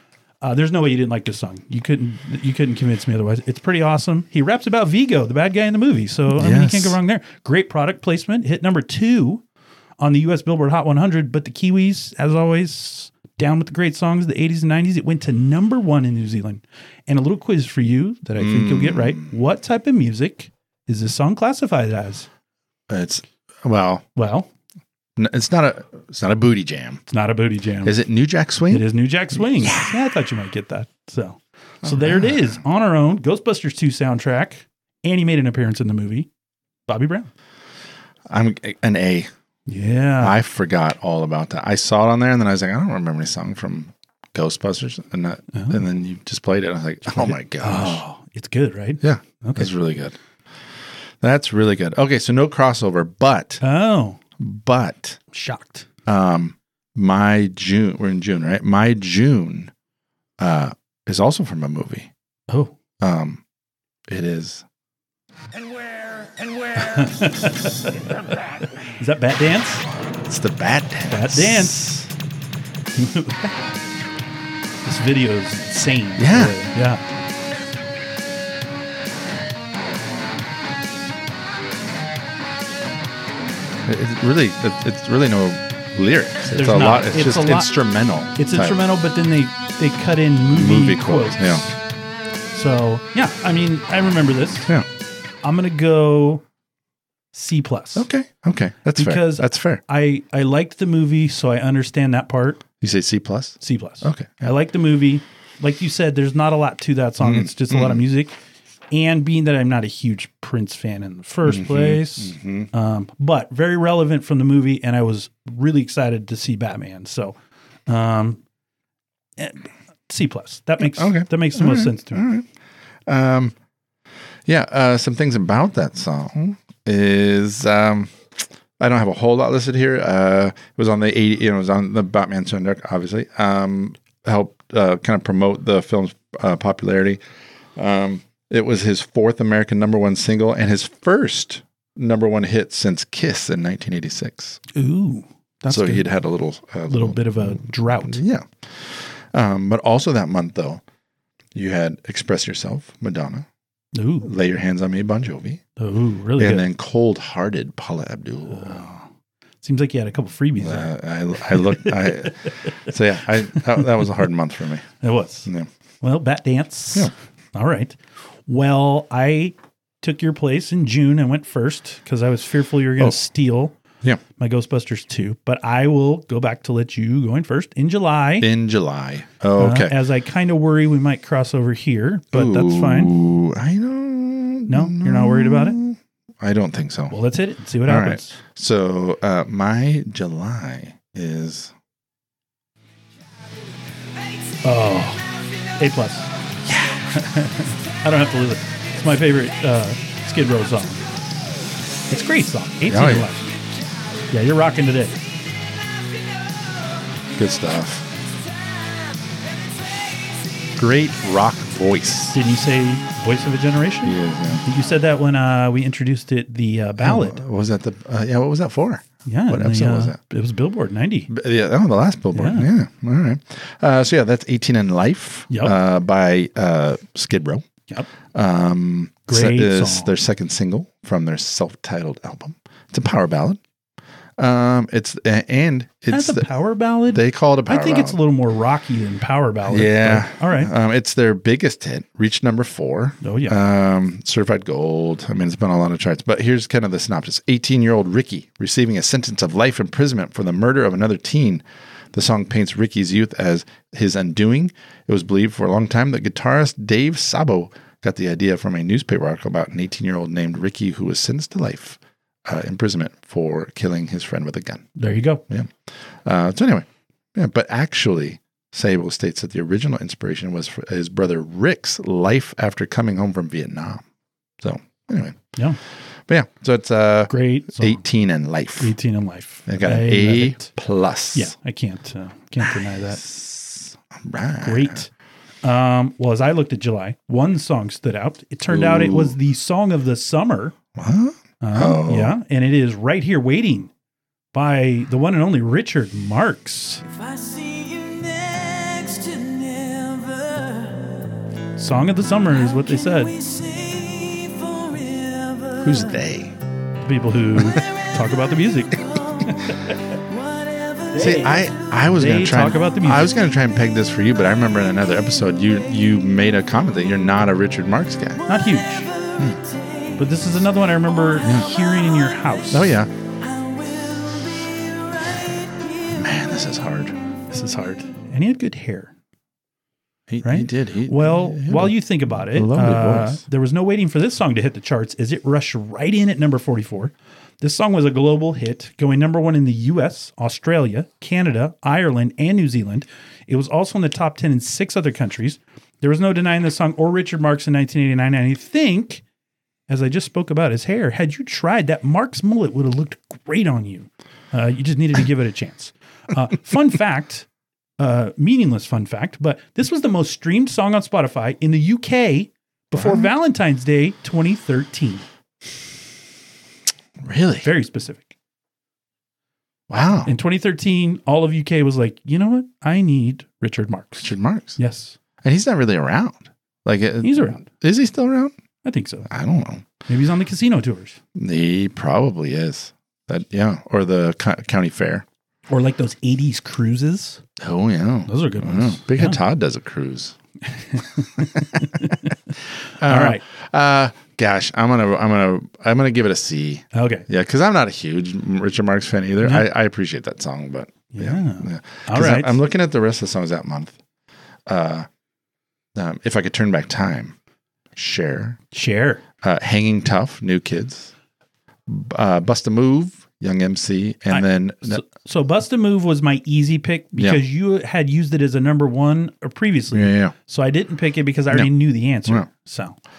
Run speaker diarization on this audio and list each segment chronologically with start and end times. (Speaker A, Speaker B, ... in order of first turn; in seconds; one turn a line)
Speaker A: 0.4-9.4
Speaker B: 6.3-7.0
Speaker A: 10.0-22.3
Speaker B: 18.4-19.3
Speaker B: 22.9-24.0
Speaker A: 24.1-24.5
Speaker B: 25.2-27.0
Speaker A: 27.1-28.0
Speaker B: 27.8-30.0
Speaker A: 28.7-36.3
Speaker B: 31.8-32.6
Speaker A: 36.9-37.3
Speaker B: 38.3-39.3
Speaker A: 39.7-40.4
Speaker B: 40.2-48.0
Speaker A: 45.5-45.8
Speaker A: 47.1-49.7
Speaker B: 49.0-50.1
Speaker B: 51.2-53.6
Speaker A: 53.6-54.2
Speaker B: 54.4-55.2
Speaker A: 55.3-55.9
Speaker B: 56.0-59.7
Speaker B: 60.4-62.1
Speaker B: 63.0-63.4
Speaker B: 64.1-64.6
Speaker A: 66.7-69.8
Speaker B: 70.2-71.8
Speaker A: 71.1-72.1
Speaker A: 72.9-73.5
Speaker A: 74.8-77.0
Speaker B: 76.2-76.5
Speaker B: 83.8-88.8
Speaker A: 86.5-87.7
Speaker A: 88.3-91.6
Speaker B: 90.5-91.6
Speaker A: 92.5-94.7
Speaker A: 95.4-96.4
Speaker A: 97.3-98.1
Speaker B: 98.0-99.8
Speaker A: 99.0-102.6
Speaker B: 102.8-104.5
Speaker A: 103.6-108.3
Speaker B: 107.2-108.0
Speaker A: 108.9-117.3
Speaker B: 111.4-112.7
Speaker A: 117.9-118.4
Speaker A: 119.4-122.2
Speaker B: 120.8-122.5
Speaker B: 123.0-123.5
Speaker B: 124.5-137.2
Speaker B: 137.8-144.6
Speaker A: 144.7-146.1
Speaker B: 145.7-150.8
Speaker A: 146.9-148.2
Speaker B: 151.5-153.4
Speaker A: 153.9-154.3
Speaker B: 154.2-155.6
Speaker A: 155.8-156.7
Speaker B: 156.3-158.9
Speaker A: 158.5-159.0
Speaker A: 159.6-162.8
Speaker B: 160.6-164.9
Speaker A: 163.5-164.1
Speaker A: 165.0-165.5
Speaker A: 166.0-173.8
Speaker A: 174.4-178.5
Speaker B: 178.4-179.9
Speaker A: 179.6-183.1
Speaker B: 182.3-187.1
Speaker A: 184.7-185.8
Speaker A: 187.1-188.4
Speaker B: 187.8-191.7
Speaker A: 194.6-195.2
Speaker A: 195.8-196.3
Speaker B: 196.7-197.1
Speaker A: 197.1-201.0
Speaker A: 202.1-203.5
Speaker B: 202.9-203.3
Speaker A: 204.3-205.2
Speaker B: 207.4-208.1
Speaker C: 208.7-209.4
Speaker B: 210.8-212.4
Speaker A: 212.3-217.4
Speaker B: 214.0-214.6
Speaker B: 217.0-220.2
Speaker A: 219.2-221.3
Speaker B: 221.3-227.6
Speaker A: 222.3-222.7
Speaker A: 225.5-225.7
Speaker B: 228.3-233.6
Speaker A: 229.3-230.2
Speaker B: 234.4-236.4
Speaker A: 236.1-240.7
Speaker B: 237.1-238.2
Speaker B: 239.7-264.9
Speaker A: 243.2-243.6
Speaker A: 264.9-265.4
Speaker B: 265.5-274.0
Speaker B: 274.6-275.5
Speaker B: 276.3-278.9
Speaker A: 277.3-278.0
Speaker A: 278.8-280.7
Speaker B: 279.7-281.5
Speaker A: 281.3-283.2
Speaker B: 282.6-285.0
Speaker A: 284.6-285.1
Speaker A: 285.6-290.7
Speaker B: 288.7-289.3
Speaker B: 290.9-292.4
Speaker A: 291.6-293.9
Speaker A: 294.5-297.0
Speaker C: 297.1-301.2
Speaker A: 301.8-303.4
Speaker C: 302.6-305.9
Speaker B: 305.8-306.6
Speaker A: 307.0-310.1
Speaker B: 307.6-307.8
Speaker C: 309.1-309.6
Speaker C: 310.3-311.1
Speaker A: 311.1-313.3
Speaker B: 311.2-318.4
Speaker A: 318.5-319.1
Speaker C: 319.4-319.8
Speaker A: 320.2-322.9
Speaker B: 321.4-321.7
Speaker B: 322.7-323.1
Speaker C: 323.4-326.0
Speaker B: 326.1-327.1
Speaker A: 327.5-329.1
Speaker B: 330.3-333.4
Speaker A: 330.4-349.2
Speaker A: 349.9-357.5
Speaker A: 358.0-365.2
Speaker B: 362.9-363.3
Speaker B: 367.2-367.7
Speaker A: 367.6-368.3
Speaker B: 369.9-370.3
Speaker A: 370.2-375.1
Speaker B: 374.2-374.8
Speaker B: 375.4-378.5
Speaker A: 377.2-377.6
Speaker A: 378.8-379.3
Speaker B: 379.3-379.8
Speaker A: 380.1-381.2
Speaker B: 381.3-385.2
Speaker A: 385.7-387.4
Speaker B: 387.6-390.4
Speaker A: 388.3-389.4
Speaker A: 390.7-393.4
Speaker B: 391.4-392.1
Speaker B: 393.0-403.9
Speaker A: 396.9-397.3
Speaker A: 399.4-399.7
Speaker A: 401.1-402.6
Speaker B: 404.7-405.1
Speaker B: 405.9-407.3
Speaker B: 407.9-408.6
Speaker A: 408.7-409.2
Speaker B: 409.4-411.1
Speaker B: 411.9-415.0
Speaker A: 414.3-423.0
Speaker B: 419.9-420.3